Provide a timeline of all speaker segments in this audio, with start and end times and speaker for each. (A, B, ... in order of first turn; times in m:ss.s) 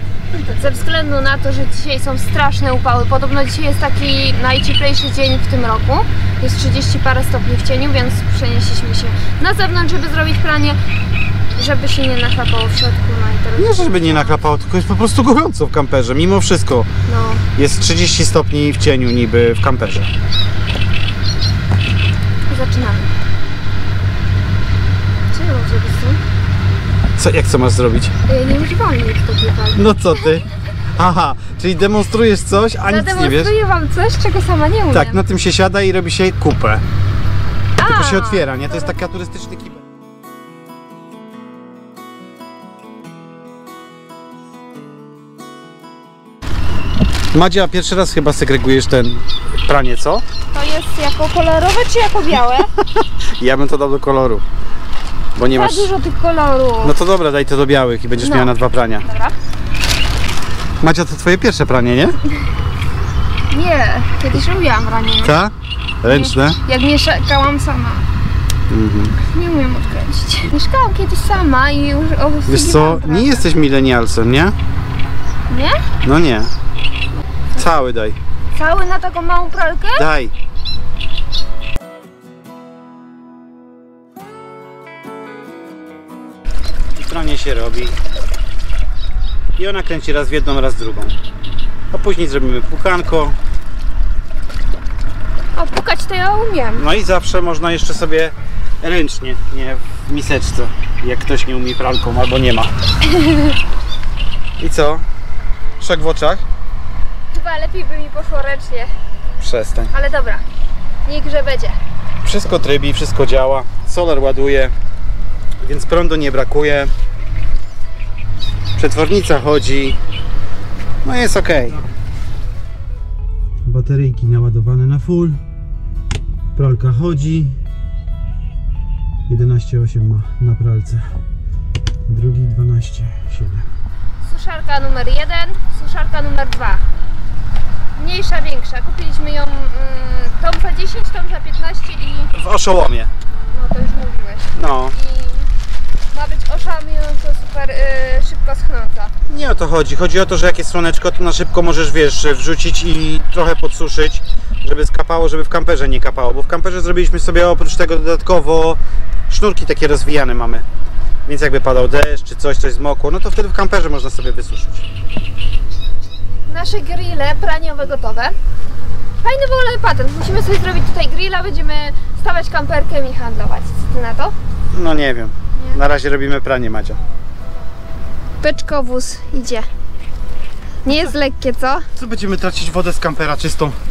0:00.3-0:10.8 A
0:11.6-0:14.4 A
0:13.6-0:16.9 B
0:17.1-0:17.4 A
0:17.6-0:20.1 B
0:22.5-0:23.1 A
0:25.3-0:26.2 A
0:27.2-0:28.1 B
0:28.3-0:30.4 A
0:29.7-0:33.5 B
0:32.9-0:35.3 A
0:34.9-0:36.8 B
0:37.8-0:38.9 A
0:37.8-0:39.8 B
0:47.3-0:50.2 B
0:50.5-0:52.7 A
0:52.8-0:54.4 B
0:55.4-0:55.9 B
0:55.5-0:56.9 A
0:56.8-0:59.0 B
0:58.2-0:59.4 A
1:00.8-1:02.2 B
1:03.5-1:05.4 A
1:05.2-1:06.6 B
1:06.1-1:08.1 A
1:08.7-1:09.2 B
1:09.2-1:13.5 A
1:12.5-1:14.6 B
1:15.5-1:15.8 A
1:16.0-1:16.5 B
1:17.6-1:18.2 B
1:18.5-1:20.1 A
1:20.0-1:20.3 B
1:27.0-1:28.0 B
1:29.6-1:31.2 B
1:31.9-1:33.4 B
1:35.5-1:36.9 A
1:36.8-1:42.7 B
1:43.0-1:43.6 A
1:44.6-1:45.1 B
1:45.8-1:46.4 B
1:47.3-1:48.9 A
1:49.4-1:49.9 B
1:49.9-1:50.4 A
1:51.0-1:51.8 A
1:52.2-1:54.7 B
1:55.6-1:56.9 B
1:58.8-2:00.0 B
2:01.0-2:01.8 B
2:03.6-2:05.4 B
2:06.6-2:07.6 B
2:09.3-2:11.1 B
2:12.1-2:13.7 B
2:14.2-2:16.8 A
2:18.0-2:22.3 A
2:22.3-2:23.1 B
2:23.5-2:25.5 A
2:24.6-2:25.0 B
2:26.1-2:29.1 A
2:29.3-2:40.6 B
2:41.3-2:44.9 B
2:46.5-2:48.4 A
2:49.2-2:54.4 A
2:54.7-2:57.0 B
2:55.6-2:55.8 A
2:58.4-2:59.7 A
3:00.8-3:01.9 A
3:02.0-3:03.8 B